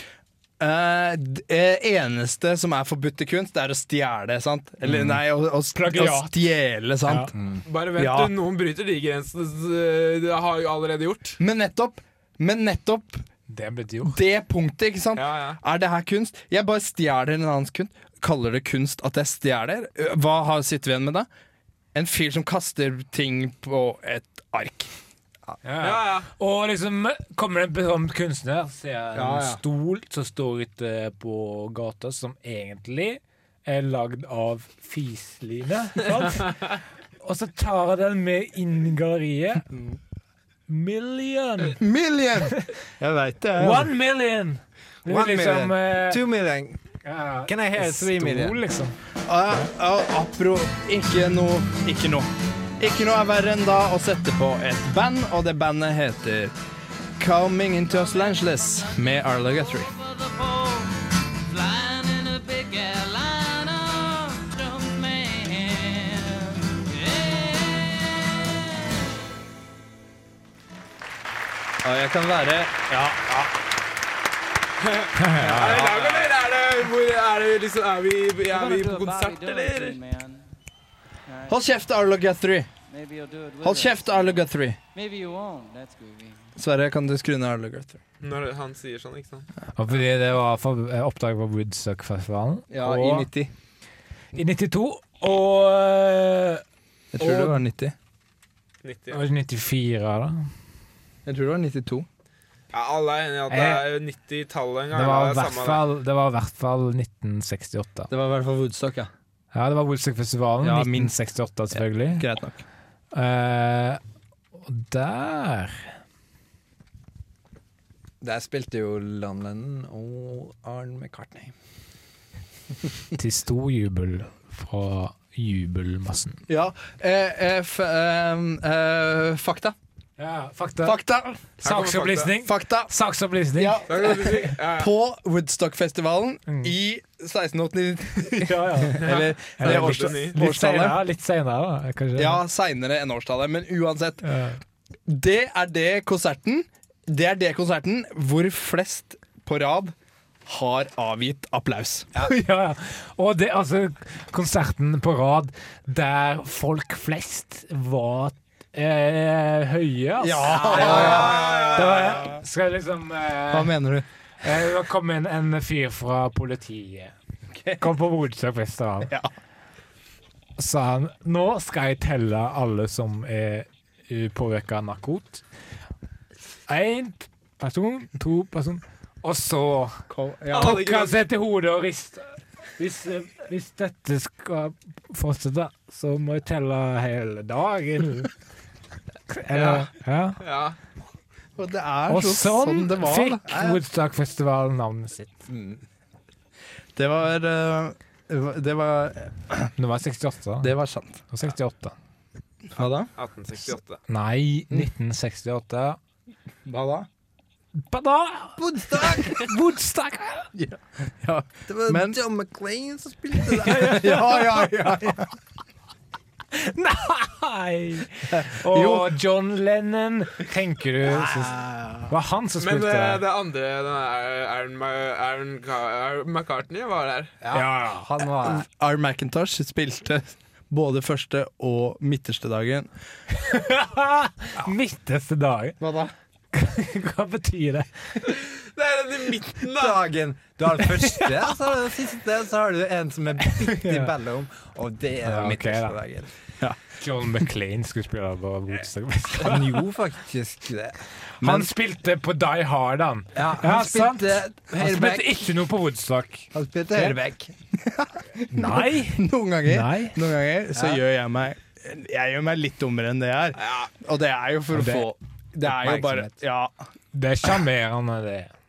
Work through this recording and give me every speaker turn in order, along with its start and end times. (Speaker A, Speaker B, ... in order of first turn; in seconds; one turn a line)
Speaker A: 0.6-7.4
Speaker B: 4.9-5.2
Speaker C: 5.7-6.5
Speaker C: 7.1-7.3
Speaker B: 7.3-7.6
Speaker D: 7.7-11.4
Speaker A: 8.0-8.4
Speaker A: 11.4-13.2
Speaker C: 13.5-14.2
Speaker A: 14.1-21.3
Speaker D: 15.2-15.6
Speaker A: 21.9-24.9
Speaker C: 25.6-39.7
Speaker D: 25.8-26.3
Speaker B: 29.2-29.6
Speaker A: 39.7-40.0
Speaker C: 40.7-41.8
Speaker A: 41.8-43.9
Speaker C: 43.6-46.2
Speaker B: 45.0-46.8
Speaker C: 47.0-49.0
Speaker B: 47.5-48.6
Speaker A: 49.3-56.5
Speaker A: 57.2-59.9
Speaker E: 57.9-69.1
Speaker A: 71.8-73.5
Speaker D: 74.8-80.0
Speaker C: 75.2-76.0
Speaker E: 78.5-80.5
Speaker E: 81.3-81.7
Speaker A: 81.5-82.7
Speaker E: 82.9-86.5
Speaker A: 83.6-84.8
Speaker A: 86.6-88.0
Speaker D: 88.2-89.5
Speaker C: 89.8-93.3
Speaker A: 92.7-93.5
Speaker C: 94.3-96.6
Speaker A: 97.2-98.0
Speaker C: 97.2-97.5
Speaker D: 98.8-99.2
Speaker C: 99.1-100.5
Speaker A: 101.3-102.1
Speaker D: 102.7-105.8
Speaker C: 103.5-103.9
Speaker C: 104.9-108.1
Speaker A: 108.1-109.1
Speaker C: 109.5-112.3
Speaker A: 110.6-111.1
Speaker A: 111.8-112.6
Speaker C: 113.1-114.0
Speaker C: 114.6-115.9
Speaker B: 118.2-121.5
Speaker C: 123.2-126.4
Speaker A: 126.5-129.8
Speaker C: 130.2-131.0
Speaker A: 130.8-131.4
Speaker C: 131.6-134.4
Speaker D: 131.6-132.3
Speaker A: 132.3-132.9
Speaker A: 133.6-141.0
Speaker D: 133.9-134.9
Speaker C: 136.5-136.7
Speaker C: 138.4-142.4
Speaker D: 139.0-140.4
Speaker A: 142.2-144.3
Speaker C: 144.2-144.6
Speaker A: 145.1-149.9
Speaker A: 150.5-152.1
Speaker C: 152.2-163.8
Speaker A: 160.2-162.4
Speaker B: 160.5-161.5
Speaker D: 160.8-162.0
Speaker A: 163.5-164.1
Speaker C: 164.4-167.1
Speaker A: 167.6-167.9
Speaker C: 167.8-169.1
Speaker C: 170.6-175.4
Speaker C: 176.7-182.3
Speaker A: 180.1-180.8
Speaker D: 180.5-181.2
Speaker C: 182.8-188.3
Speaker C: 189.3-190.4
Speaker D: 189.5-190.8
Speaker A: 191.6-193.8
Speaker C: 192.1-195.4
Speaker B: 195.5-195.8
Speaker A: 196.9-199.7
Speaker C: 199.8-200.7
Speaker A: 200.6-201.2
Speaker C: 201.3-201.9
Speaker A: 202.7-203.1
Speaker D: 203.2-204.0
Speaker C: 204.1-206.0
Speaker A: 206.7-207.1
Speaker C: 207.8-210.5
Speaker B: 208.6-209.5
Speaker A: 210.5-212.2
Speaker B: 211.7-214.2
Speaker A: 213.6-215.3
Speaker C: 213.7-214.0
Speaker C: 216.5-223.2
Speaker A: 218.3-219.2
Speaker B: 221.1-222.0
Speaker D: 222.6-227.3
Speaker B: 227.4-228.7
Speaker C: 227.5-228.1
Speaker A: 228.4-232.9
Speaker C: 233.3-235.8
Speaker A: 235.8-236.1
Speaker C: 236.5-238.4
Speaker D: 238.3-240.0
Speaker B: 239.7-246.3
Speaker C: 243.5-244.1
Speaker C: 245.2-246.0
Speaker C: 247.0-249.9
Speaker B: 249.4-251.0
Speaker C: 251.4-256.5
Speaker A: 251.4-251.7
Speaker B: 253.3-255.3
Speaker B: 256.5-257.5
Speaker A: 257.8-266.7
Speaker C: 258.5-260.2
Speaker B: 260.7-261.0
Speaker D: 263.6-263.9
Speaker C: 264.7-265.1
Speaker B: 265.6-266.4
Speaker C: 267.1-268.5